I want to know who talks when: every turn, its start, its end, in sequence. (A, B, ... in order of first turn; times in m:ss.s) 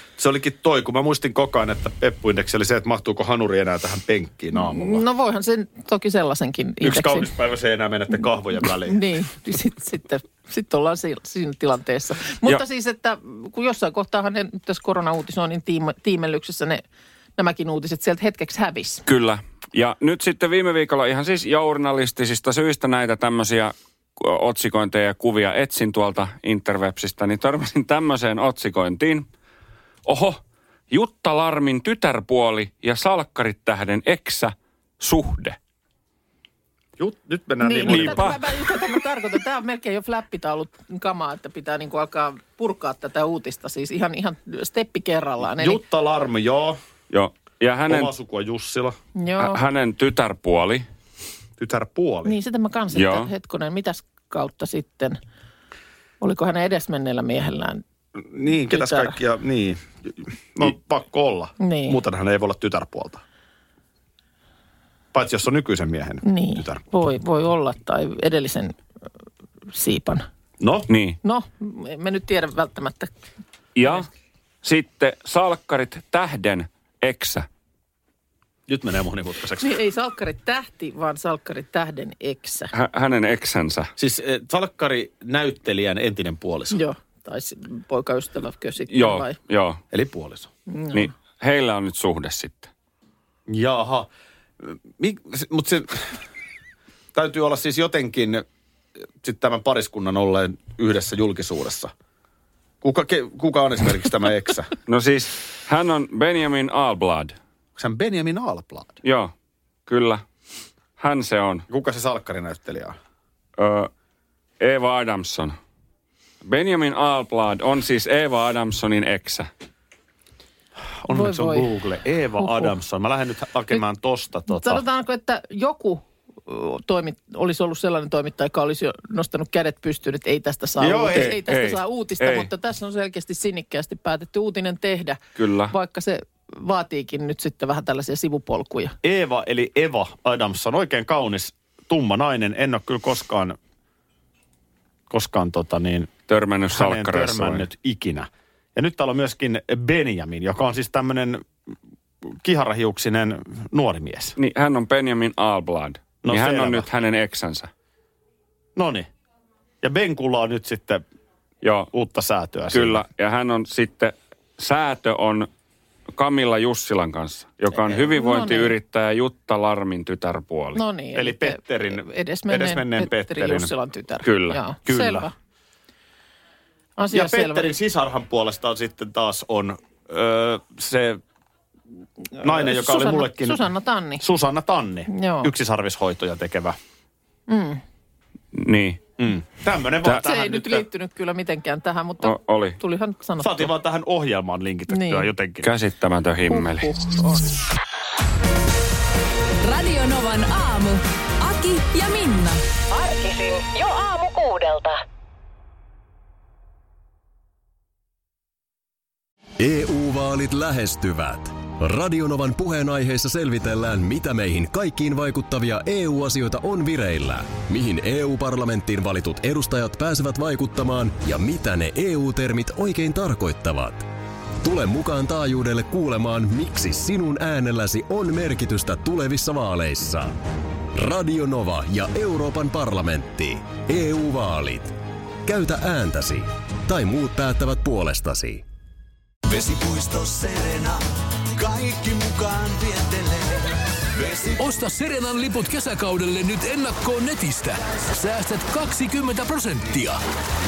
0:00.2-0:05.0 A
0:04.5-0:07.3 B
0:06.8-0:09.0 A
0:08.8-0:16.8 B
0:17.4-0:19.0 B
0:19.1-0:29.3 C
0:30.0-0:35.6 C
0:37.0-0:38.4 A
0:37.6-0:45.8 B
0:37.9-0:38.4 C
0:45.6-0:46.8 A
0:47.1-0:48.1 C
0:47.9-0:49.0 A
0:49.2-0:49.6 B
0:49.4-0:50.8 C
0:51.6-0:52.4 A
0:52.2-0:55.2 B
0:52.9-0:53.3 C
0:56.2-0:57.8 B
0:58.2-1:03.2 A
0:58.5-0:59.2 B
1:01.6-1:02.0 B
1:05.1-1:06.8 A
1:06.2-1:08.8 B
1:09.7-1:10.2 B
1:10.6-1:10.9 A
1:10.9-1:11.2 C
1:11.2-1:13.2 B
1:13.8-1:14.1 C
1:14.6-1:17.5 C
1:18.7-1:19.8 A
1:19.6-1:22.7 B
1:22.7-1:23.9 C
1:24.0-1:26.8 A
1:26.7-1:29.4 B
1:28.9-1:29.8 C
1:29.9-1:30.5 A
1:30.7-1:31.1 B
1:30.9-1:32.7 C
1:33.5-1:34.1 A
1:34.6-1:36.1 A
1:37.1-1:38.4 A
1:39.2-1:41.9 A
1:42.8-1:44.7 A
1:44.9-1:47.4 C
1:47.8-1:49.0 A
1:49.0-1:49.3 C
1:49.9-1:50.2 C
1:51.0-1:51.6 C
1:51.7-1:53.0 A
1:53.6-1:53.9 C
1:54.6-1:55.6 C
1:56.4-1:59.5 C
2:01.0-2:04.8 A
2:01.1-2:01.7 B
2:02.4-2:02.7 B
2:04.5-2:19.0 B
2:10.8-2:11.4 A
2:11.2-2:12.5 C
2:15.4-2:15.7 C
2:19.0-2:23.6 A
2:25.1-2:31.5 A
2:26.3-2:27.6 C
2:32.3-2:34.4 A
2:34.4-2:37.7 C
2:36.2-2:36.9 A
2:38.8-2:39.1 A
2:39.8-2:41.0 A
2:41.6-2:41.9 C
2:41.9-2:43.0 A
2:42.7-2:45.5 C
2:46.1-2:50.8 C
2:48.0-2:48.8 B
2:50.7-2:55.3 B
2:51.1-2:53.7 A
2:54.2-2:54.6 C
2:54.9-2:55.3 A
2:57.0-2:57.7 B
2:57.1-3:01.2 A
3:02.4-3:04.2 B
3:02.4-3:03.7 A
3:04.2-3:06.8 A
3:05.1-3:05.5 B
3:07.5-3:07.8 B
3:08.5-3:09.0 C
3:09.2-3:10.8 A
3:10.1-3:13.7 B
3:12.2-3:12.8 C
3:13.4-3:15.7 A
3:14.9-3:15.3 B
3:15.6-3:17.0 C
3:16.5-3:17.5 B
3:19.6-3:22.6 D
3:22.9-3:25.0 E
3:29.6-3:44.1 F
3:44.6-3:50.4 F
3:50.9-3:58.6 F
3:59.5-4:03.6 G
4:04.2-4:04.6 G
4:04.6-4:10.2 H